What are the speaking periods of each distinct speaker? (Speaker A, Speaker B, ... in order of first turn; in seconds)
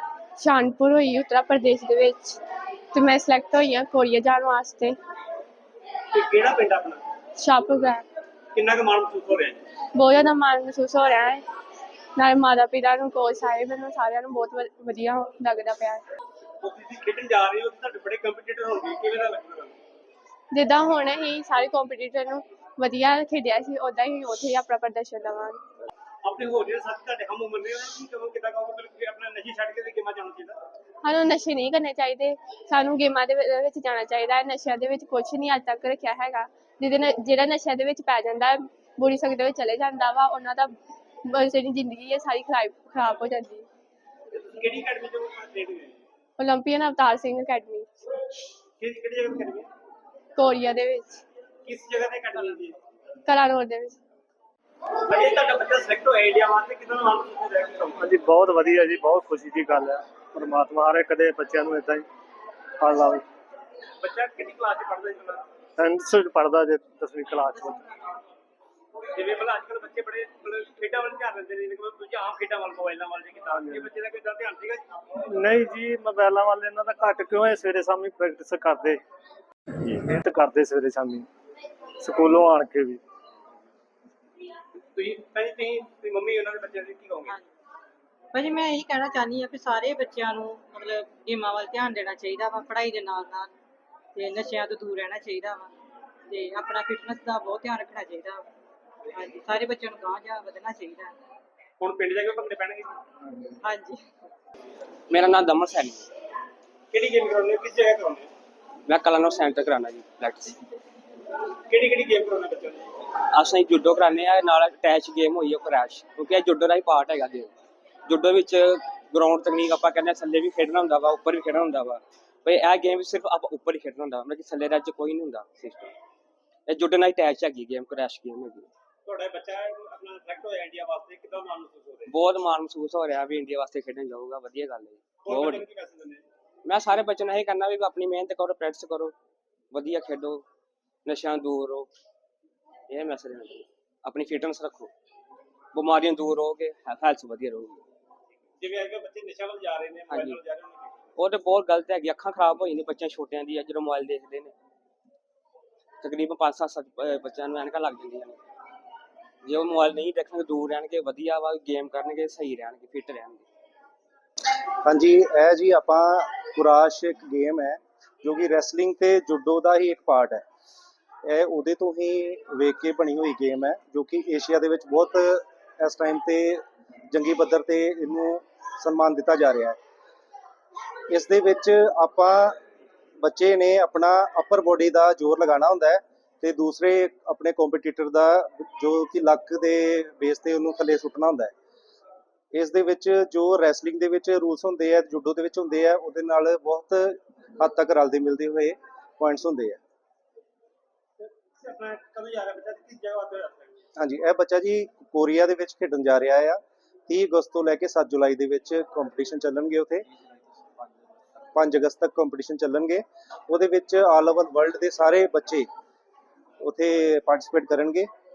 Speaker A: 0.4-2.4, 2.9-4.9, 7.4-8.0, 9.9-11.4, 12.2-16.0, 20.5-25.6, 31.0-40.7, 41.2-43.6, 46.4-47.9, 50.4-51.2, 53.2-54.0
Speaker B: 6.1-7.0, 8.5-9.6, 16.6-19.7, 26.2-30.6, 44.3-46.0, 48.8-49.7, 51.6-52.8, 55.0-58.0, 64.0-65.4, 69.1-74.8, 84.9-87.4, 101.8-102.9, 106.9-108.3, 111.7-112.9, 129.1-132.1, 135.2-136.2, 148.6-150.9, 201.2-203.7
Speaker C: 58.0-62.0, 62.8-63.2, 65.8-67.8, 75.3-79.0, 79.8-81.3, 82.0-83.0
Speaker D: 67.5-68.0, 88.3-93.5, 94.1-95.7, 96.3-98.4, 99.1-101.1, 103.6-104.0
Speaker E: 105.1-106.1, 108.9-110.6, 113.3-117.5, 118.1-125.9, 126.7-128.7, 132.1-135.6, 136.7-139.1, 139.7-140.4, 141.1-141.9, 142.9-144.9, 145.7-147.8, 150.1-150.4, 151.2-154.5, 156.0-158.4, 159.4-163.4
Speaker F: 164.8-170.4, 171.2-179.8, 181.1-182.6, 183.2-191.5, 192.5-199.8, 204.0-210.1, 211.5-215.7, 216.6-218.1